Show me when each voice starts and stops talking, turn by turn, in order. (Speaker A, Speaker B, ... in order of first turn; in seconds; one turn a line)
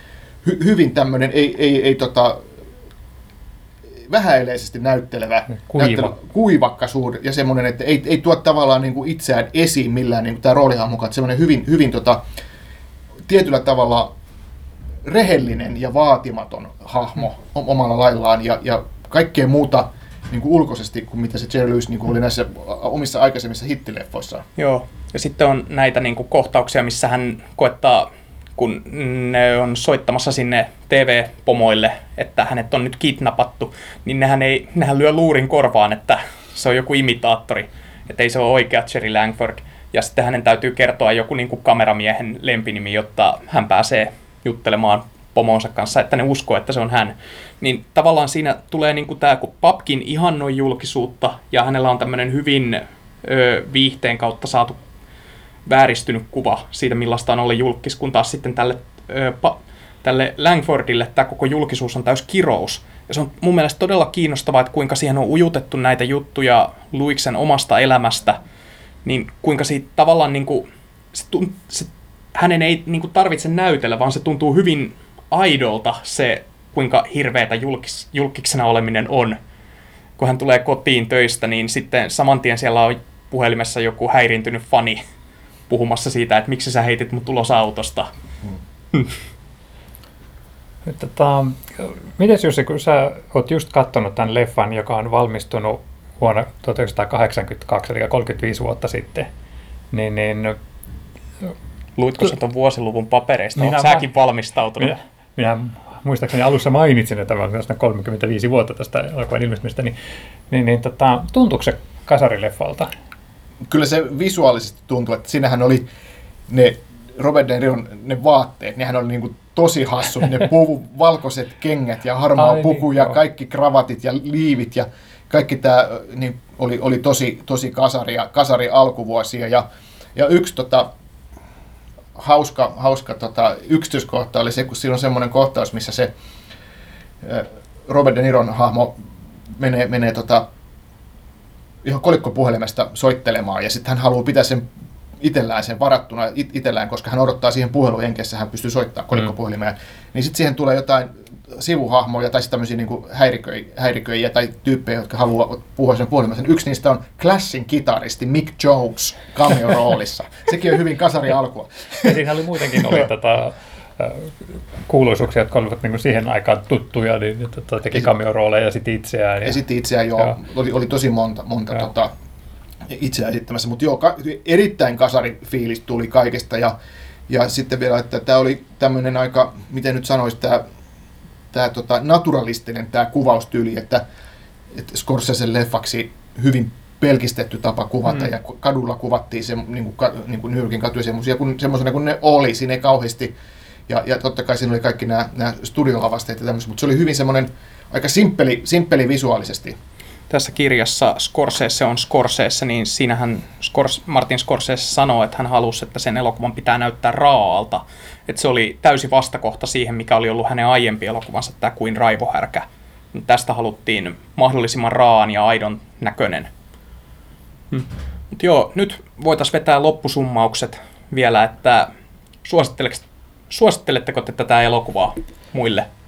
Speaker A: 0.4-2.4
Speaker A: 4.1-12.2
Speaker B: 5.5-6.1
Speaker A: 13.3-14.1
Speaker A: 15.0-24.4
Speaker C: 24.6-54.8
Speaker C: 55.6-68.4
Speaker C: 69.0-79.4
Speaker C: 80.2-85.0
Speaker C: 85.7-88.1
Speaker B: 90.9-99.3
Speaker B: 99.9-100.6
Speaker C: 102.0-105.0
Speaker B: 103.6-104.1
Speaker B: 104.8-109.9
Speaker B: 110.5-112.9
Speaker A: 113.7-115.9
Speaker A: 116.5-129.6
Speaker B: 122.4-123.1
Speaker A: 130.1-130.9
Speaker A: 132.2-136.1
Speaker A: 137.2-138.9
Speaker A: 139.6-140.4
Speaker A: 141.8-144.7
Speaker A: 145.2-162.2
Speaker B: 162.0-164.3
Speaker B: 164.9-169.6
Speaker A: 169.4-172.1
Speaker A: 172.9-176.7
Speaker A: 177.3-180.6
Speaker A: 181.5-184.0
Speaker A: 184.7-193.3
Speaker A: 193.9-199.8
Speaker C: 200.3-216.5
Speaker C: 217.7-221.9
Speaker C: 222.4-225.9